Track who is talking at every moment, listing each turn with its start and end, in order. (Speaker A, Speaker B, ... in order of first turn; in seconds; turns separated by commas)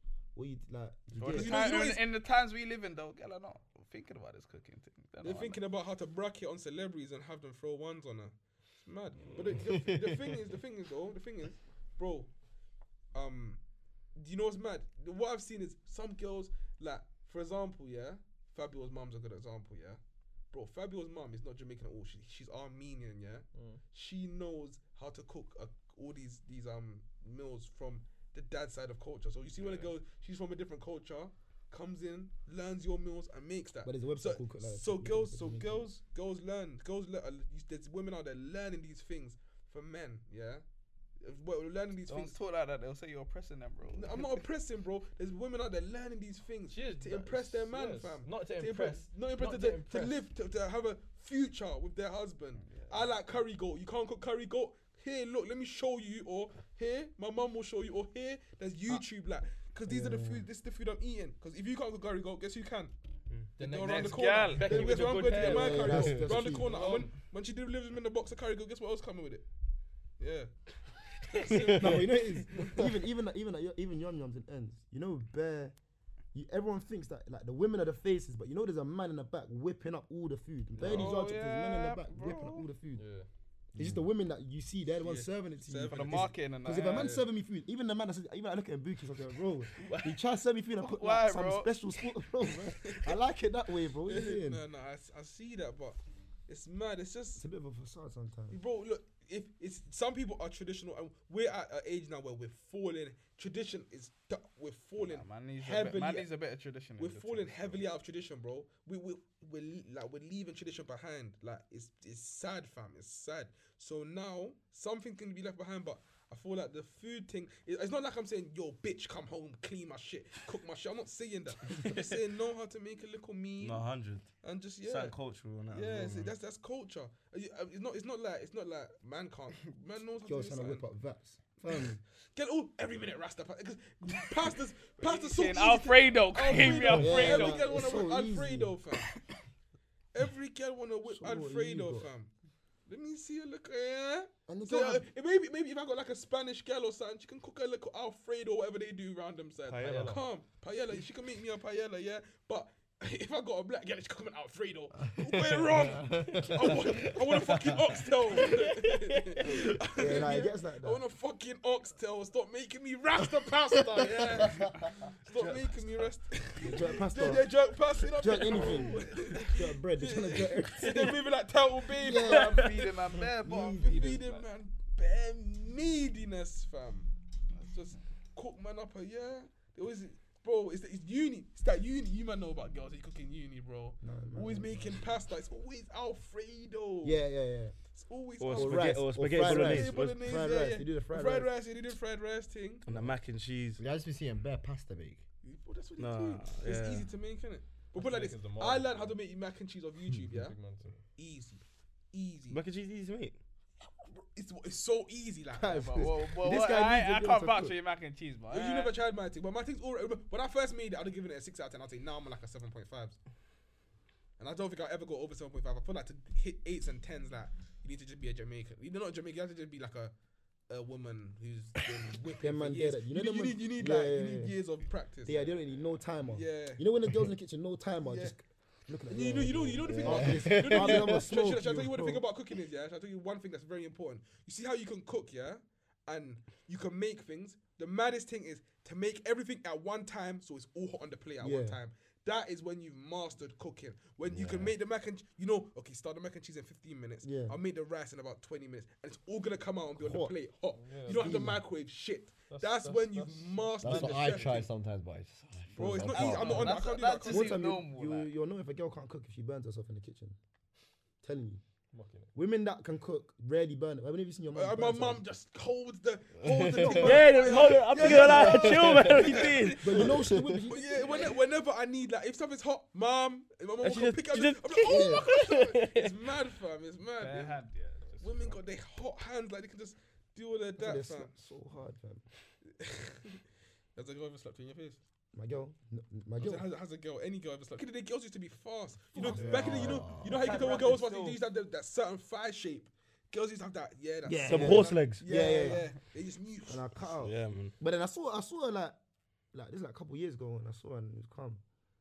Speaker A: 0.3-1.6, Speaker B: 1.2-5.6, Speaker C: 1.2-2.0, Speaker C: 5.2-12.3, Speaker C: 13.1-13.6, Speaker C: 14.1-20.0, Speaker C: 20.5-40.6, Speaker D: 23.5-23.8, Speaker A: 33.8-35.9, Speaker C: 41.2-42.4, Speaker B: 42.1-44.3, Speaker C: 43.9-62.9, Speaker D: 46.7-50.2, Speaker B: 52.6-53.1, Speaker A: 59.9-60.5, Speaker D: 63.6-67.1, Speaker C: 63.6-69.5, Speaker B: 63.6-65.3, Speaker A: 65.3-66.7, Speaker E: 65.9-66.3, Speaker C: 70.2-70.6, Speaker C: 71.3-72.0, Speaker E: 71.5-72.0, Speaker A: 71.8-75.8, Speaker C: 72.5-72.9, Speaker A: 76.3-83.1, Speaker D: 80.7-81.2, Speaker B: 80.8-82.7, Speaker D: 83.0-83.3, Speaker E: 83.7-84.1, Speaker A: 83.8-94.6, Speaker C: 85.0-87.2, Speaker B: 85.9-87.2, Speaker B: 90.8-91.7, Speaker C: 92.9-93.1, Speaker C: 94.1-97.4, Speaker A: 97.4-98.6, Speaker C: 98.5-106.3, Speaker B: 105.0-107.8, Speaker C: 107.0-130.9, Speaker F: 123.6-124.3, Speaker F: 124.8-126.3, Speaker A: 130.2-132.0, Speaker C: 132.3-139.1, Speaker B: 135.0-137.7, Speaker E: 136.7-137.0, Speaker A: 136.9-138.7, Speaker C: 140.1-142.3, Speaker A: 141.1-142.1, Speaker C: 142.8-173.1, Speaker A: 144.5-145.1, Speaker F: 149.7-150.2, Speaker D: 149.8-150.2, Speaker E: 156.1-156.7, Speaker A: 159.9-161.0, Speaker F: 165.4-165.8, Speaker A: 166.6-167.5, Speaker A: 168.2-171.3, Speaker A: 171.8-172.9, Speaker B: 172.2-174.5, Speaker A: 173.4-174.2, Speaker C: 173.8-187.2, Speaker A: 184.0-184.9, Speaker A: 187.0-187.8, Speaker C: 187.9-192.9, Speaker F: 188.4-190.6, Speaker A: 188.5-191.5, Speaker F: 192.8-193.8, Speaker E: 193.8-195.2, Speaker C: 195.4-200.6, Speaker F: 196.0-197.1, Speaker D: 197.9-199.2, Speaker D: 200.3-201.0, Speaker C: 201.2-202.6, Speaker F: 202.5-203.4, Speaker C: 204.2-206.1, Speaker A: 205.5-207.8, Speaker B: 205.9-208.9, Speaker C: 208.5-213.2, Speaker C: 214.4-220.1, Speaker C: 220.7-225.7, Speaker A: 222.4-224.6, Speaker A: 225.2-232.2, Speaker C: 226.3-226.8, Speaker C: 228.0-228.3, Speaker C: 229.1-254.7, Speaker E: 229.8-231.2, Speaker A: 241.4-241.8, Speaker E: 244.2-244.7, Speaker A: 247.2-247.6, Speaker A: 250.0-250.4, Speaker D: 250.7-251.4, Speaker A: 251.1-251.7, Speaker D: 252.5-254.6, Speaker E: 253.8-256.8, Speaker C: 255.8-257.6, Speaker A: 255.8-256.3, Speaker B: 256.1-258.3, Speaker A: 257.2-260.4, Speaker A: 261.2-261.6, Speaker D: 261.9-262.3, Speaker A: 262.3-265.2, Speaker C: 264.6-270.1, Speaker E: 266.4-269.3, Speaker A: 266.7-267.3, Speaker F: 266.9-270.1, Speaker A: 268.1-268.9, Speaker A: 269.8-271.3, Speaker E: 270.1-270.6, Speaker C: 270.6-277.6, Speaker F: 273.8-276.1, Speaker A: 274.8-275.3, Speaker B: 277.2-278.6, Speaker C: 278.2-281.3, Speaker A: 280.7-282.2, Speaker C: 282.6-283.4, Speaker C: 283.9-285.0, Speaker A: 285.3-286.7, Speaker C: 286.4-297.1, Speaker A: 289.1-290.1, Speaker E: 289.3-290.5, Speaker D: 290.2-291.4, Speaker A: 294.2-295.9, Speaker F: 294.4-295.6, Speaker A: 296.7-299.0, Speaker F: 297.2-297.8, Speaker A: 299.5-301.6